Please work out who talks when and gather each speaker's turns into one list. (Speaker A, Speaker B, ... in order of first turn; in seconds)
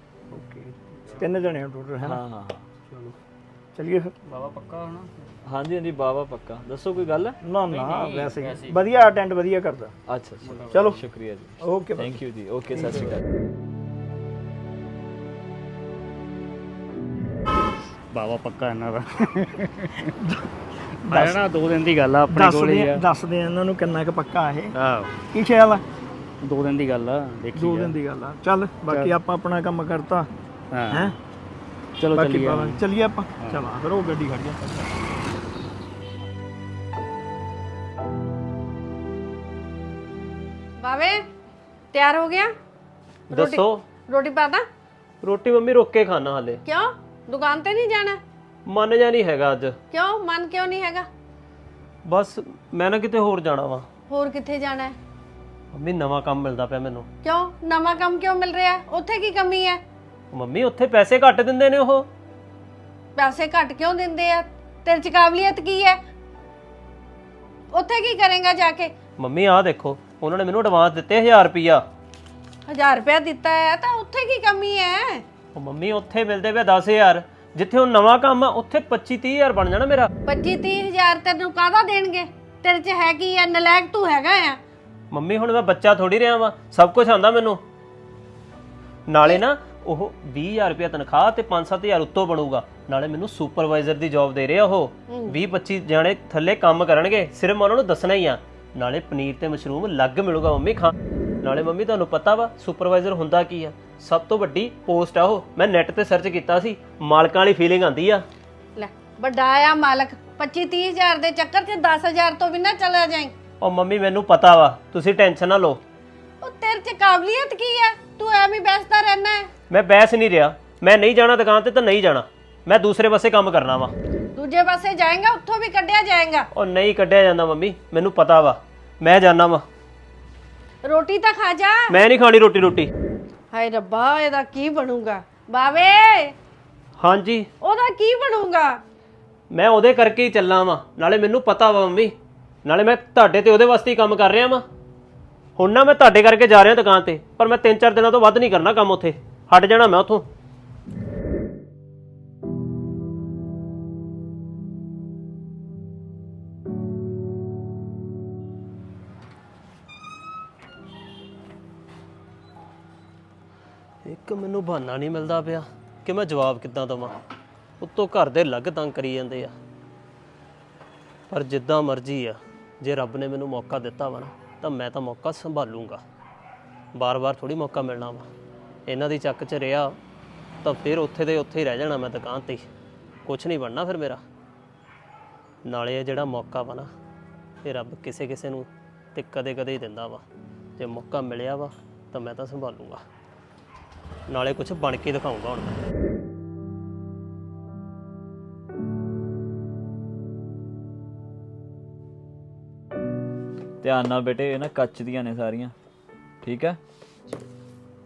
Speaker A: 0.3-2.2, 3.7-4.1, 7.4-9.9, 10.7-11.0, 11.6-12.1, 20.2-20.5, 21.0-21.4, 22.3-24.7, 25.3-25.8, 27.5-30.3, 30.9-31.2, 32.1-34.8
Speaker B: 1.0-1.3, 4.3-5.3, 7.7-8.8, 10.4-11.0, 18.1-20.1, 21.1-23.0, 24.8-25.1, 26.4-27.9, 28.9-29.1, 30.7-31.1, 32.0-32.8
Speaker C: 2.0-2.7, 5.5-7.4, 10.1-13.3, 203.8-205.7, 206.4-206.8
Speaker D: 40.8-41.2, 41.9-42.5, 43.3-44.6, 46.6-48.2, 49.9-51.1, 54.1-55.0, 57.2-59.8, 63.1-66.0, 67.7-68.9, 72.7-75.2, 80.2-84.6, 95.1-95.4, 108.8-113.3, 116.4-119.5, 124.3-126.5, 130.8-131.9, 133.5-136.3, 137.6-138.8
Speaker E: 43.3-43.8, 45.2-46.6, 48.6-49.8, 52.0-53.9, 55.7-57.1, 60.3-62.1, 69.2-71.8, 75.5-80.1, 85.1-87.6, 89.1-108.2, 113.6-115.8, 119.7-123.9, 126.5-129.6, 131.9-132.9, 137.0-137.5, 139.5-144.6, 145.6-150.2, 164.0-167.2, 167.8-169.6, 171.3-176.0, 176.9-178.3, 178.9-180.0, 180.6-182.7, 183.2-184.2, 185.6-186.9, 187.6-190.2, 190.8-193.0, 194.3-195.8